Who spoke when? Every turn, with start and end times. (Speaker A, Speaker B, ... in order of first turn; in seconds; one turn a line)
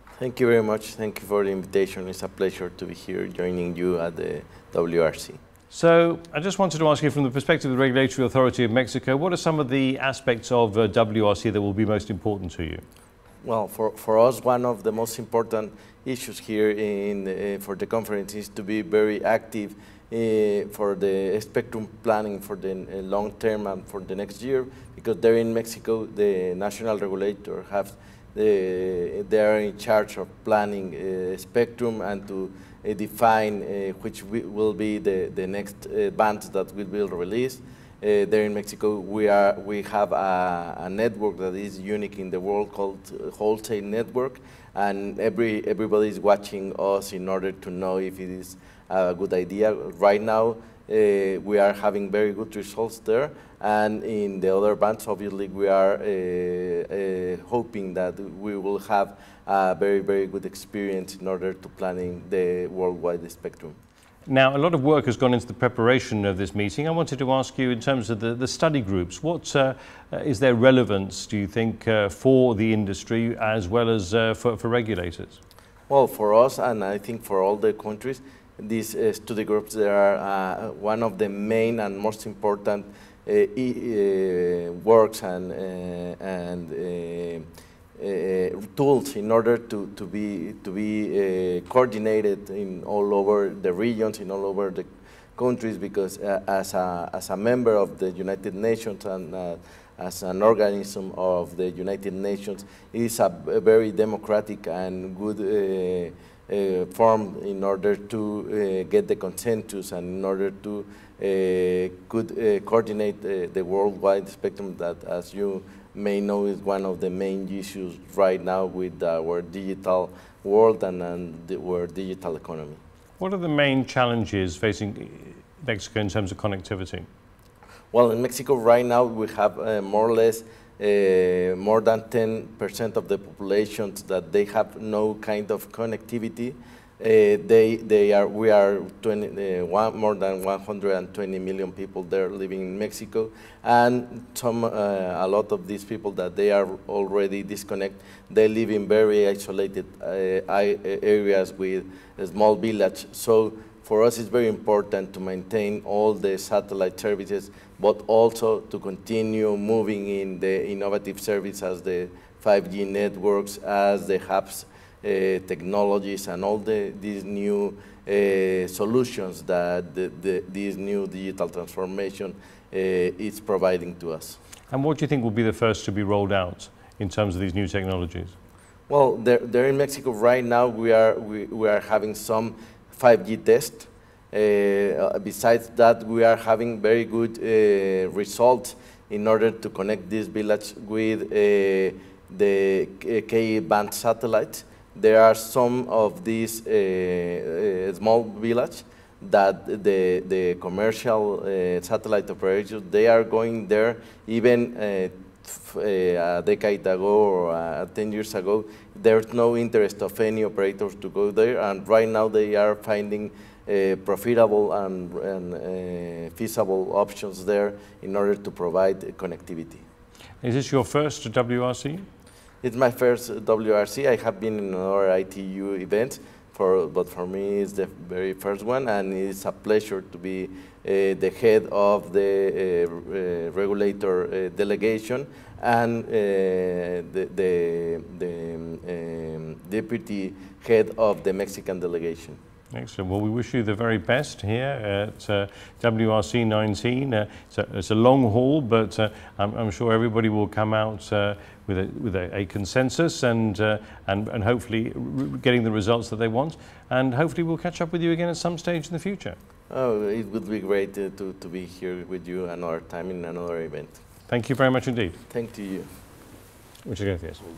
Speaker A: 0.2-5.4
Speaker B: 5.7-12.8
Speaker A: 13.4-63.8
Speaker B: 64.3-75.4
Speaker A: 75.9-122.8
Speaker B: 123.2-127.1
Speaker A: 127.9-174.4
Speaker B: 174.7-178.3
Speaker A: 178.9-219.8
Speaker B: 220.4-222.0
Speaker A: 222.6-242.4
Speaker B: 242.7-259.4
Speaker A: 259.7-264.0
Speaker B: 264.3-265.1
Speaker A: 265.3-265.9
Speaker B: 266.8-267.4